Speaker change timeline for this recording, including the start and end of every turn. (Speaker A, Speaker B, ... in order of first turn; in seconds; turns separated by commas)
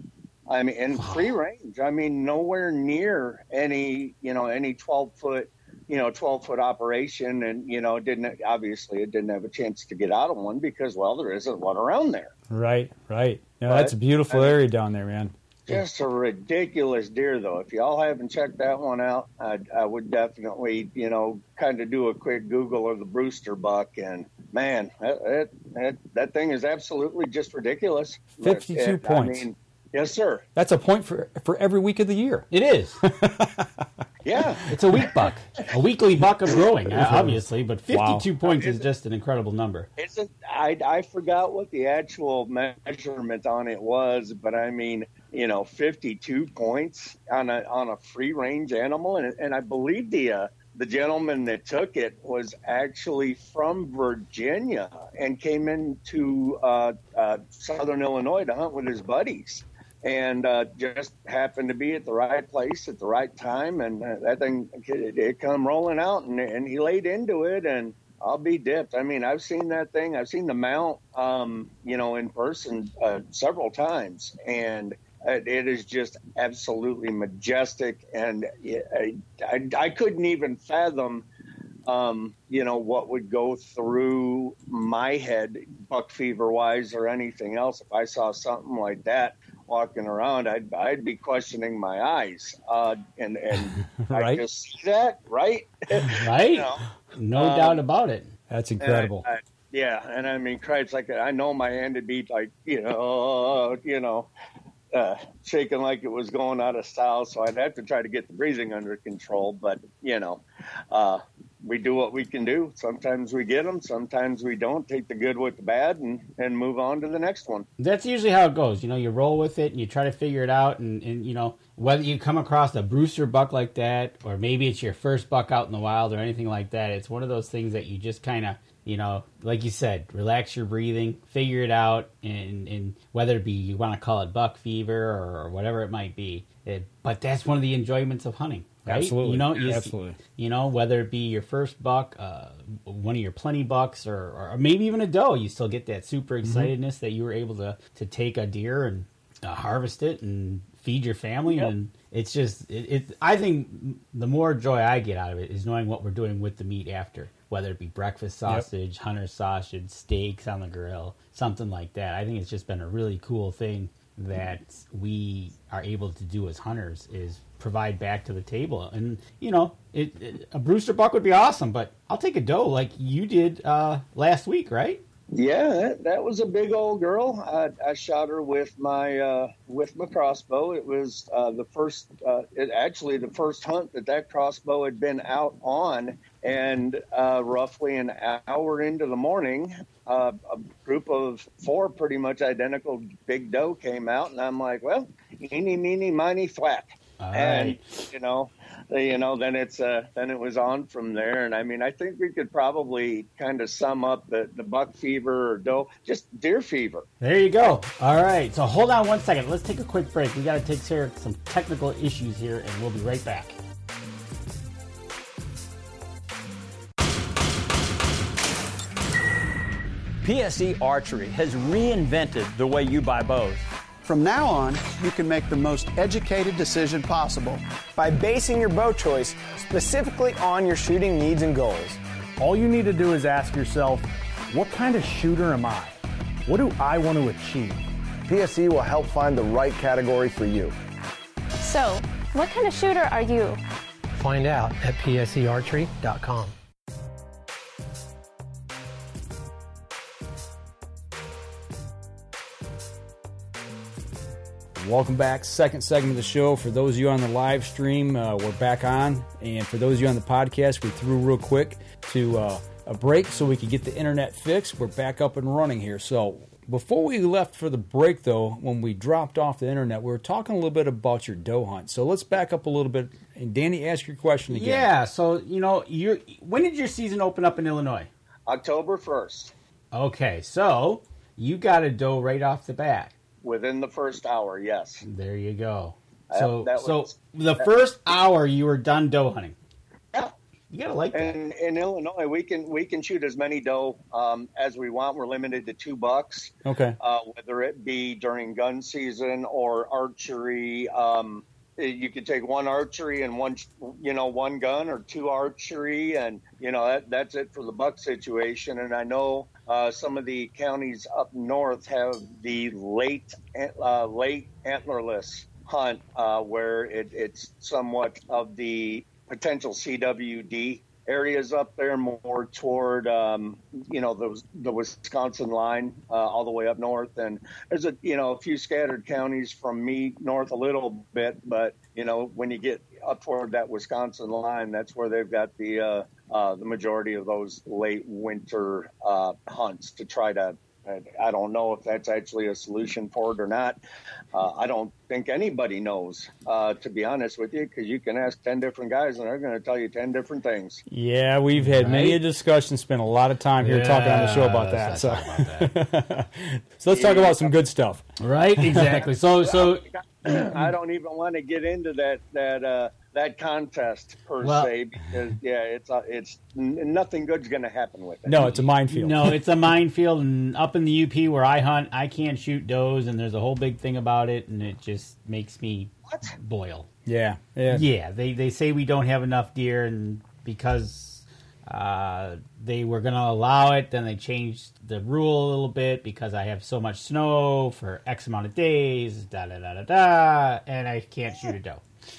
Speaker A: 0.5-12.3, Speaker B: 1.0-1.4, Speaker C: 12.5-15.8, Speaker A: 13.7-14.6, Speaker A: 15.7-30.4, Speaker C: 28.4-29.5, Speaker C: 30.6-32.5, Speaker B: 32.5-33.0, Speaker C: 33.0-34.0, Speaker A: 34.2-34.7, Speaker B: 34.7-39.9, Speaker C: 36.9-37.4, Speaker C: 37.9-38.3, Speaker A: 38.5-38.8, Speaker A: 40.0-81.3, Speaker A: 81.9-97.8, Speaker C: 93.5-94.4, Speaker B: 96.1-98.3, Speaker C: 98.5-99.2, Speaker A: 98.8-104.3, Speaker A: 104.9-117.7, Speaker B: 117.8-175.0, Speaker C: 138.8-140.2, Speaker C: 146.4-146.7, Speaker A: 175.3-207.1, Speaker B: 197.2-198.1, Speaker B: 207.2-213.6, Speaker D: 220.2-223.6, Speaker E: 224.0-227.6, Speaker F: 228.0-232.0, Speaker G: 232.4-237.8, Speaker F: 238.2-240.7, Speaker H: 241.6-243.6, Speaker I: 244.2-246.5, Speaker C: 254.8-274.9, Speaker B: 274.5-278.1, Speaker A: 278.5-279.5, Speaker B: 279.9-283.1, Speaker A: 283.4-285.0, Speaker B: 285.0-289.6, Speaker A: 286.3-287.6, Speaker B: 290.7-291.4, Speaker A: 291.1-343.8, Speaker C: 296.7-297.0, Speaker A: 344.3-350.8, Speaker C: 350.9-358.9, Speaker B: 351.6-352.2, Speaker B: 353.6-355.7, Speaker A: 356.9-357.5, Speaker B: 358.2-359.8, Speaker A: 358.8-368.6, Speaker B: 364.4-364.7, Speaker C: 368.3-369.4, Speaker B: 368.9-376.9, Speaker A: 376.1-376.3, Speaker C: 377.1-377.9, Speaker B: 377.7-391.8